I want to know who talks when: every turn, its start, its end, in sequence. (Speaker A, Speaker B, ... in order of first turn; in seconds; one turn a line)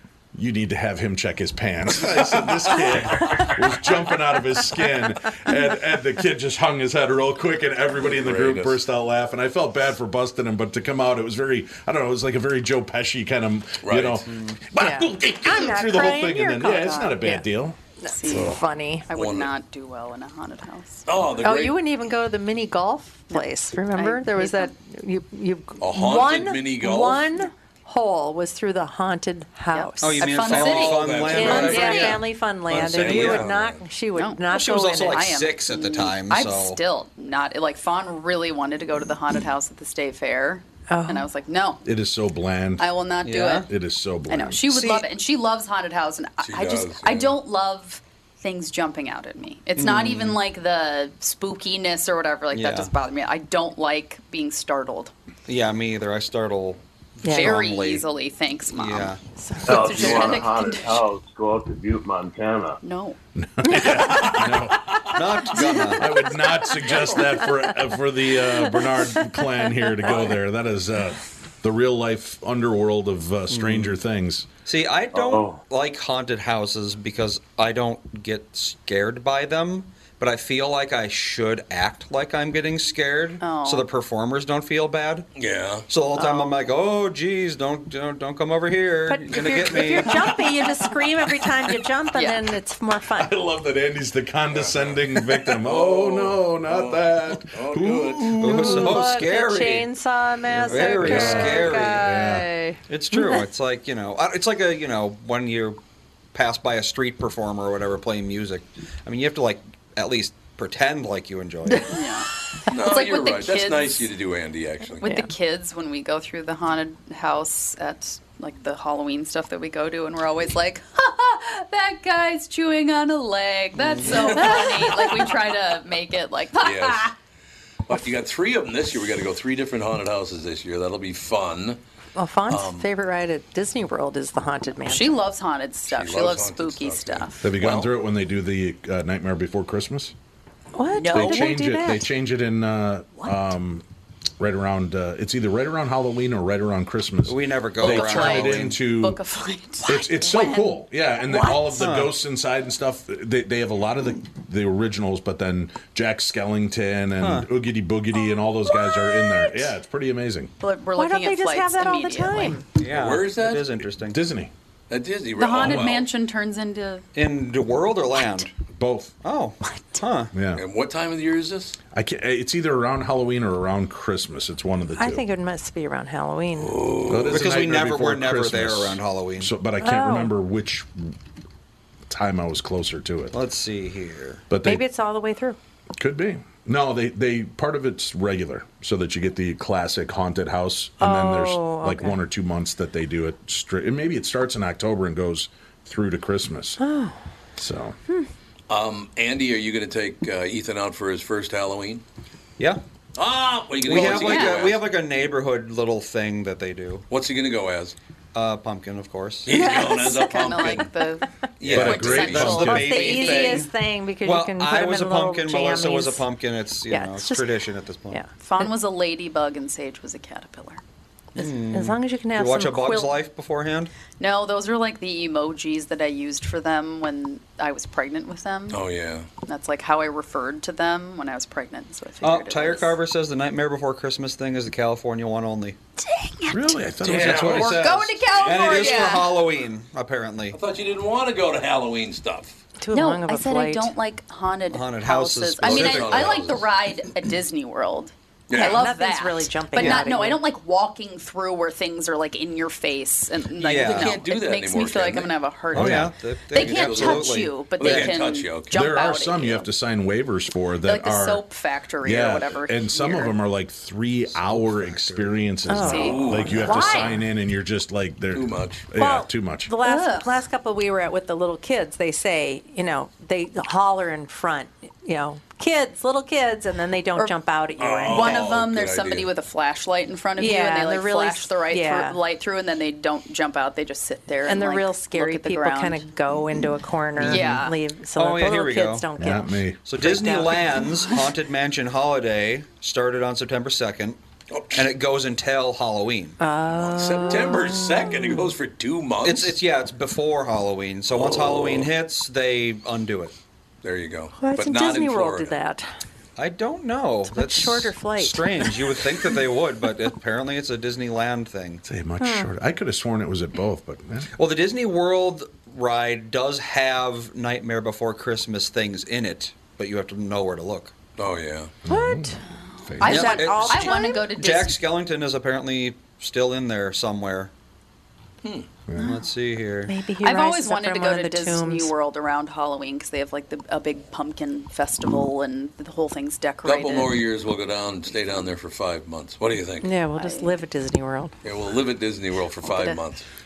Speaker A: 0.3-17.8
Speaker B: 1.9-3.5
Speaker B: 8.0-8.8
Speaker B: 13.8-14.2
Speaker C: 14.3-14.6
Speaker D: 14.8-17.4
Speaker E: 16.8-17.1
Speaker D: 18.0-19.1
Speaker E: 18.1-21.1
Speaker B: 18.3-18.6
Speaker B: 19.1-19.5
Speaker B: 21.1-21.8
Speaker D: 21.4-30.4
Speaker E: 23.3-24.7
Speaker B: 25.8-27.3
Speaker E: 29.7-32.2
Speaker C: 30.0-33.5
Speaker B: 30.5-32.1
Speaker D: 31.3-35.2
Speaker B: 32.7-33.8
Speaker E: 34.1-41.8
Speaker C: 34.5-36.8
Speaker D: 40.9-41.3
Speaker A: 41.8-42.9
Speaker E: 42.8-43.7
Speaker C: 43.2-43.7
Speaker A: 43.6-44.7
Speaker E: 44.3-55.1
Speaker C: 44.7-45.1
Speaker B: 46.4-47.4
Speaker C: 49.8-50.4
Speaker C: 52.5-52.9
Speaker C: 55.5-58.0
Speaker D: 57.2-57.6
Speaker E: 57.3-61.0
Speaker C: 58.7-59.2
Speaker D: 59.4-60.2
Speaker F: 59.6-62.8
Speaker E: 62.8-63.2
Speaker A: 63.4-65.2
Speaker D: 63.7-64.4
Speaker C: 65.1-66.2
Speaker A: 65.9-74.5
Speaker D: 66.4-67.7
Speaker D: 68.3-70.2
Speaker E: 70.0-70.4
Speaker C: 73.5-74.0
Speaker C: 74.6-85.3
Speaker F: 75.1-75.6
Speaker E: 83.4-83.9
Speaker B: 85.3-85.9
Speaker C: 85.9-90.3
Speaker E: 86.1-86.5
Speaker D: 89.1-93.3
Speaker E: 92.1-92.5
Speaker A: 93.2-99.2
Speaker B: 94.5-95.0
Speaker B: 95.6-98.4
Speaker C: 98.4-99.9
Speaker D: 98.4-103.4
Speaker C: 100.5-102.1
Speaker A: 100.8-102.5
Speaker C: 102.9-105.8
Speaker C: 106.3-111.9
Speaker E: 111.8-114.1
Speaker B: 112.7-115.0
Speaker E: 115.0-127.1
Speaker D: 115.0-115.3
Speaker D: 124.4-125.0
Speaker B: 126.6-127.1
Speaker B: 127.9-131.8
Speaker D: 132.2-135.2
Speaker B: 132.5-132.9
Speaker E: 134.8-137.4
Speaker B: 135.9-137.9
Speaker A: 137.4-140.1
Speaker D: 140.7-142.0
Speaker E: 140.9-141.7
Speaker A: 141.1-143.8
Speaker A: 144.4-149.2
Speaker C: 147.2-148.8
Speaker E: 147.8-151.8
Speaker A: 149.9-160.5
Speaker D: 150.2-150.6
Speaker C: 151.7-152.2
Speaker C: 157.2-157.5
Speaker E: 160.6-162.6
Speaker D: 160.9-162.6
Speaker C: 162.8-164.2
Speaker B: 162.9-163.7
Speaker A: 164.0-164.5
Speaker B: 164.9-166.1
Speaker E: 165.3-167.1
Speaker C: 167.1-168.5
Speaker A: 168.6-169.1
Speaker C: 169.2-170.3
Speaker A: 170.3-170.6
Speaker B: 170.5-171.8
Speaker A: 171.9-175.2
Speaker D: 175.0-176.8
Speaker B: 176.6-177.5
Speaker A: 177.1-181.1
Speaker C: 177.3-179.5
Speaker D: 179.8-180.3
Speaker A: 182.1-183.4
Speaker C: 183.3-184.4
Speaker A: 184.5-184.8
Speaker D: 184.6-185.6
Speaker A: 186.0-196.8
Speaker D: 191.0-192.2
Speaker D: 196.8-197.2
Speaker A: 197.6-198.0
Speaker B: 198.7-202.0
Speaker B: 203.2-204.8
Speaker C: 203.8-207.0
Speaker E: 203.9-204.7
Speaker B: 207.1-207.9
Speaker C: 208.3-209.5
Speaker B: 209.4-210.9
Speaker E: 209.5-213.6
Speaker D: 209.7-210.1
Speaker B: 211.6-213.6
Speaker C: 211.6-213.7
Speaker A: 211.6-213.1
Speaker D: 212.5-216.2
Speaker C: 214.2-218.2
Speaker D: 216.9-217.6
Speaker D: 218.1-218.7
Speaker E: 218.4-220.8
Speaker C: 221.3-223.9
Speaker D: 221.4-223.1
Speaker E: 224.2-228.8
Speaker B: 228.7-229.3
Speaker E: 229.4-233.0
Speaker C: 232.2-235.8
Speaker D: 236.4-236.8
Speaker A: 236.5-237.9
Speaker B: 237.0-239.2
Speaker C: 237.1-240.6
Speaker E: 237.6-239.5
Speaker B: 240.5-242.6
Speaker D: 242.8-243.9
Speaker E: 242.9-259.7
Speaker C: 244.7-246.4
Speaker B: 245.6-246.7
Speaker B: 248.5-248.8
Speaker D: 248.5-250.4
Speaker C: 253.6-254.2
Speaker B: 253.8-255.3
Speaker C: 255.7-258.2
Speaker A: 255.7-256.1
Speaker B: 256.5-258.8
Speaker A: 258.7-261.4
Speaker E: 260.8-263.4
Speaker A: 262.0-269.7
Speaker C: 264.2-265.5
Speaker D: 265.7-267.2
Speaker E: 265.7-267.2
Speaker B: 266.0-266.8
Speaker B: 268.3-268.9
Speaker D: 269.0-278.5
Speaker E: 269.8-270.3
Speaker B: 277.8-279.3
Speaker E: 278.1-286.1
Speaker D: 280.4-282.2
Speaker D: 284.4-291.2
Speaker E: 287.2-287.7
Speaker C: 287.2-287.6
Speaker C: 288.1-289.1
Speaker A: 289.2-289.9
Speaker C: 289.8-294.2
Speaker B: 294.5-294.9
Speaker C: 294.7-296.4
Speaker D: 296.4-298.5
Speaker B: 296.7-299.6
Speaker C: 299.2-303.3
Speaker B: 301.1-301.9
Speaker B: 303.8-305.6
Speaker D: 304.4-305.9
Speaker C: 306.4-311.8
Speaker D: 307.3-308.8
Speaker A: 311.8-314.3
Speaker D: 312.2-312.5
Speaker C: 314.4-320.9
Speaker B: 321.2-321.7
Speaker A: 321.8-322.3
Speaker D: 321.9-322.4
Speaker E: 322.7-324.8
Speaker A: 322.9-323.2
Speaker D: 323.0-324.3
Speaker C: 323.1-327.5
Speaker B: 328.4-328.7
Speaker A: 328.9-329.1
Speaker E: 329.0-329.3
Speaker C: 329.0-329.9
Speaker D: 329.9-331.9
Speaker E: 330.1-337.2
Speaker B: 336.6-339.9
Speaker D: 339.8-341.3
Speaker E: 340.1-340.6
Speaker B: 341.4-343.2
Speaker E: 342.6-343.0